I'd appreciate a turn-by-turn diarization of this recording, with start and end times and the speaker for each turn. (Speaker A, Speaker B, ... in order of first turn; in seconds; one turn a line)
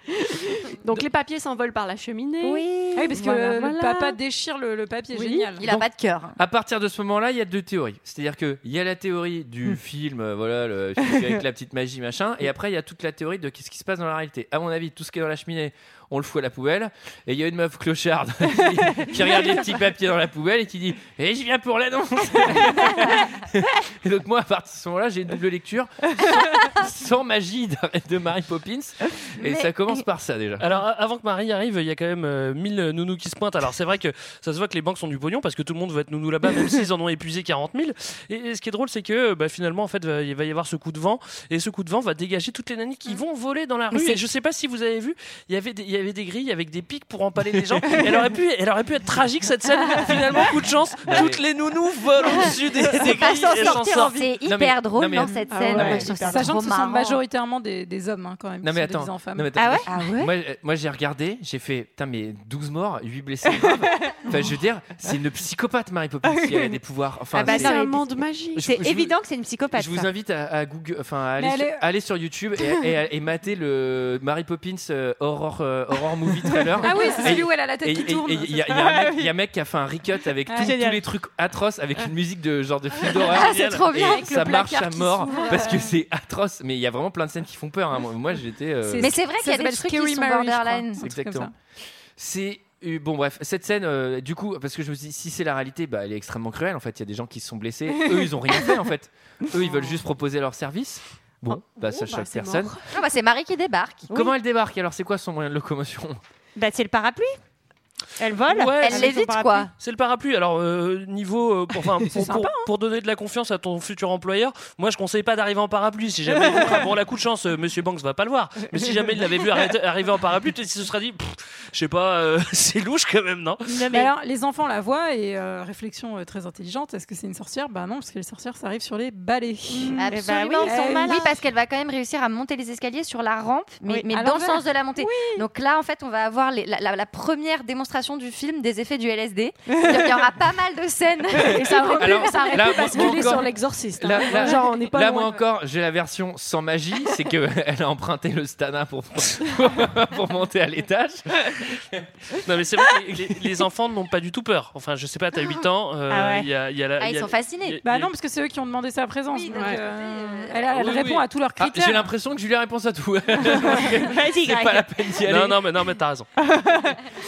Speaker A: 0.8-4.2
Speaker B: 2.4-3.1
Speaker C: 3.0-5.6
Speaker A: 5.1-5.6
Speaker D: 5.6-6.4
Speaker E: 6.4-30.7
Speaker D: 29.4-30.0
Speaker F: 30.6-54.2
Speaker E: 51.1-51.4
Speaker D: 52.4-57.2
Speaker B: 53.1-54.3
Speaker E: 54.5-56.1
Speaker A: 55.5-56.5
Speaker C: 56.2-59.6
Speaker E: 58.6-67.8
Speaker B: 59.6-59.9
Speaker D: 59.9-60.3
Speaker A: 66.4-66.7
Speaker B: 67.3-68.1
Speaker A: 67.4-68.7
Speaker E: 68.5-69.2
Speaker B: 68.6-70.1
Speaker E: 69.7-89.1
Speaker C: 71.4-71.8
Speaker C: 76.8-78.7
Speaker B: 78.7-79.3
Speaker C: 80.5-80.8
Speaker B: 80.6-81.0
Speaker D: 83.2-85.7
Speaker F: 83.4-83.9
Speaker C: 84.0-86.0
Speaker C: 88.8-91.5
Speaker D: 89.0-91.0
Speaker E: 91.0-91.5
Speaker E: 92.2-102.7
Speaker A: 101.6-102.9
Speaker D: 102.9-104.0
Speaker E: 104.1-106.2
Speaker B: 106.6-107.4
Speaker B: 108.2-109.7
Speaker F: 108.5-109.2
Speaker D: 108.8-109.7
Speaker F: 109.8-123.7
Speaker C: 112.1-112.7
Speaker B: 123.7-124.1
Speaker C: 123.9-131.3
Speaker B: 129.9-131.4
Speaker D: 129.9-142.7
Speaker C: 134.1-135.5
Speaker A: 141.4-145.4
Speaker C: 141.6-144.7
Speaker E: 141.9-152.0
Speaker F: 152.4-158.1
Speaker B: 156.1-156.5
Speaker D: 157.0-157.8
Speaker C: 157.8-162.1
Speaker D: 159.3-160.7
Speaker F: 160.7-161.3
Speaker E: 161.6-165.6
Speaker B: 164.0-165.0
Speaker F: 165.3-166.3
Speaker C: 166.6-167.0